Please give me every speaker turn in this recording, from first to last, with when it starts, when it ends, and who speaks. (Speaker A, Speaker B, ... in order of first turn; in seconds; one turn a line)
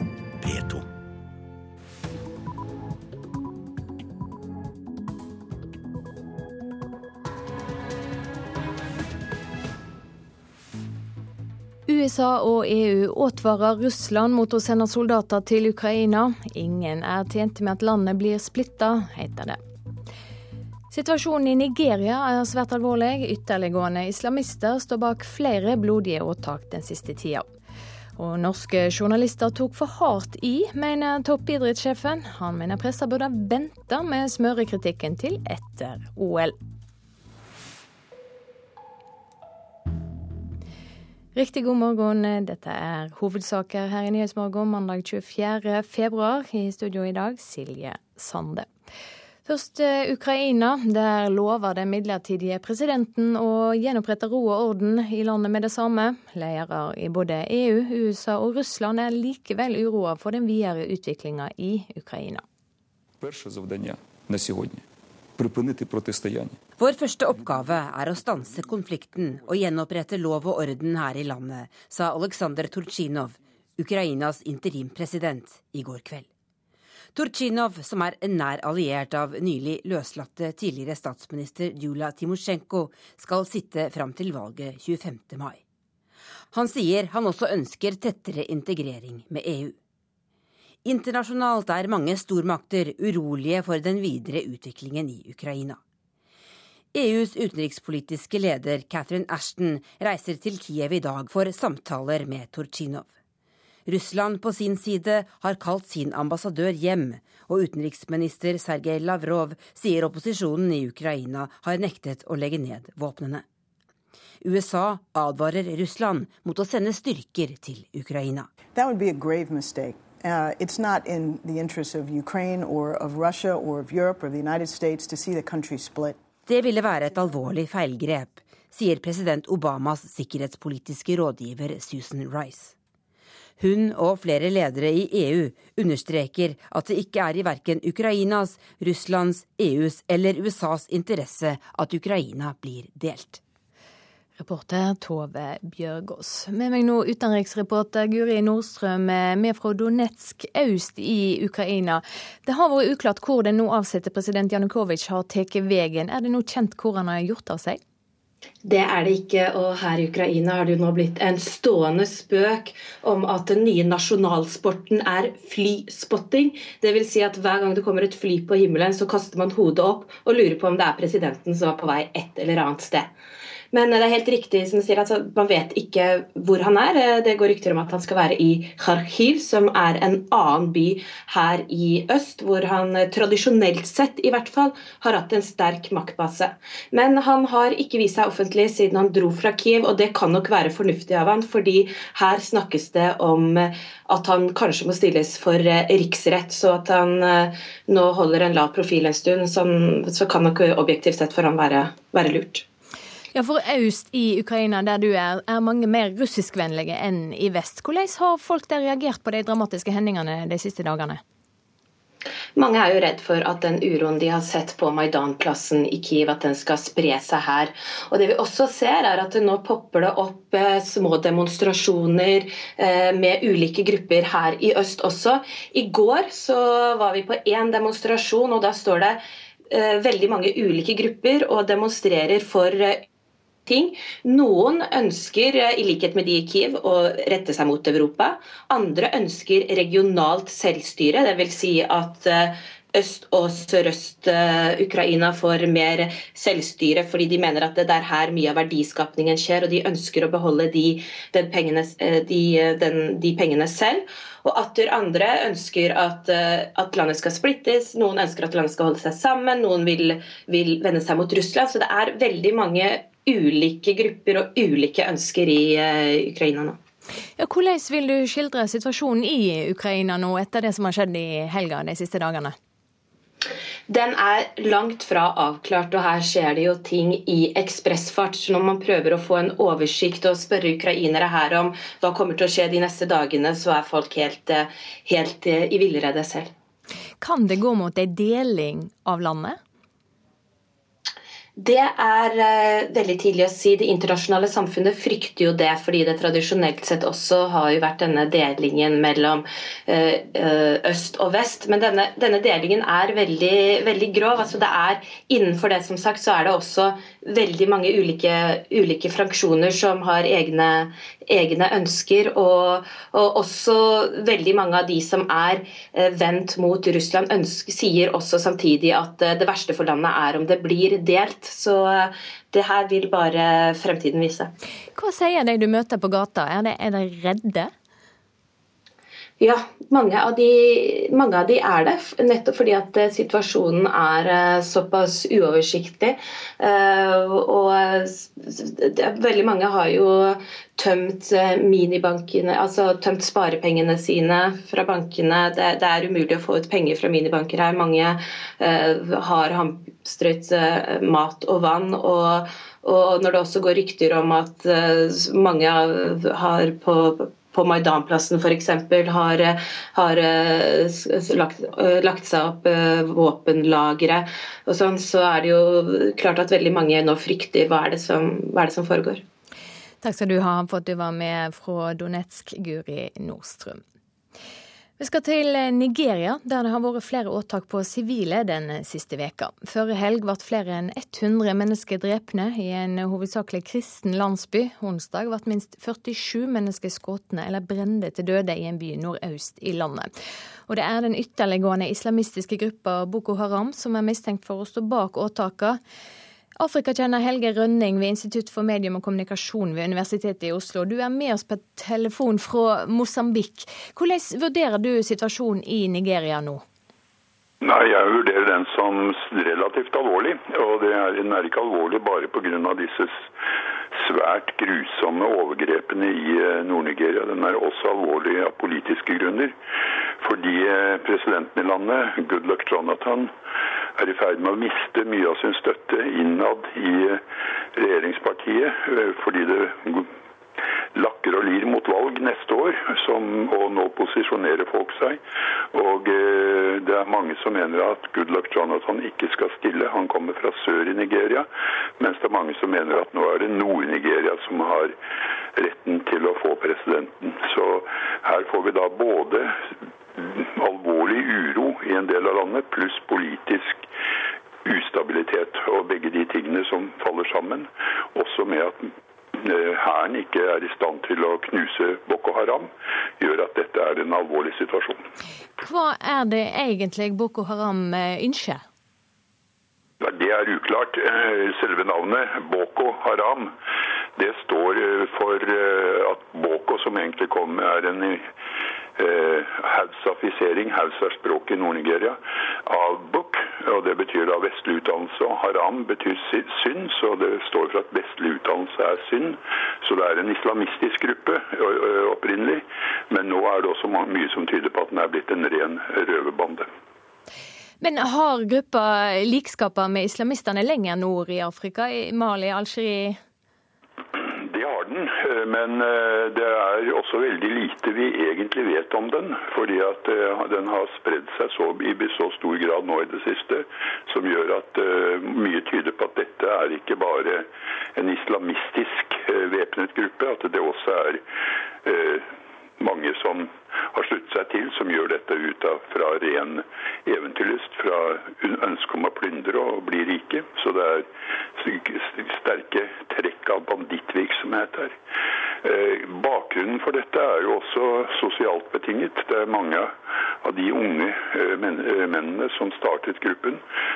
Speaker A: 11.9-19.6
Speaker A: 20.9-27.5
Speaker A: 28.2-36.5
Speaker A: 41.3-48.7
Speaker A: 49.4-62.4
Speaker B: 66.8-76.3
Speaker B: 77.1-85.6
Speaker B: 86.5-89.8
Speaker B: 90.8-95.8
Speaker B: 96.9-103.1
Speaker B: 103.8-113.4
Speaker B: 114.4-118.5
Speaker C: 118.7-126.2
Speaker B: 126.5-132.7
Speaker B: 133.6-143.4
Speaker A: 144.4-157.8
Speaker D: 158.6-173.1
Speaker D: 173.7-202.6
Speaker A: 203.3-211.2
Speaker D: 212.6-229.2
Speaker D: 229.7-233.1
Speaker D: 233.7-266.8
Speaker A: 267.4-272.5
Speaker D: 273.9-286.5
Speaker A: 287.2-289.6
Speaker D: 291.6-324.5
Speaker A: 324.9-327.7
Speaker D: 329.4-369.2
Speaker A: 370.0-373.8
Speaker A: 375.0-390.1
Speaker A: 390.7-395.8
Speaker A: 396.6-406.6
Speaker E: 407.6-413.3
Speaker E: 413.9-419.5
Speaker E: 420.2-423.3
Speaker E: 424.0-427.2
Speaker E: 427.7-430.1
Speaker E: 430.9-435.2
Speaker E: 435.7-441.5
Speaker E: 442.0-444.9
Speaker E: 445.6-449.5
Speaker E: 450.1-453.9
Speaker E: 454.6-465.1
Speaker A: 465.6-468.6
Speaker E: 470.0-473.5
Speaker E: 474.1-478.3
Speaker E: 479.0-496.7
Speaker A: 497.8-503.2
Speaker E: 504.1-521.2
Speaker E: 521.8-522.3
Speaker E: 522.8-535.0
Speaker E: 535.6-543.6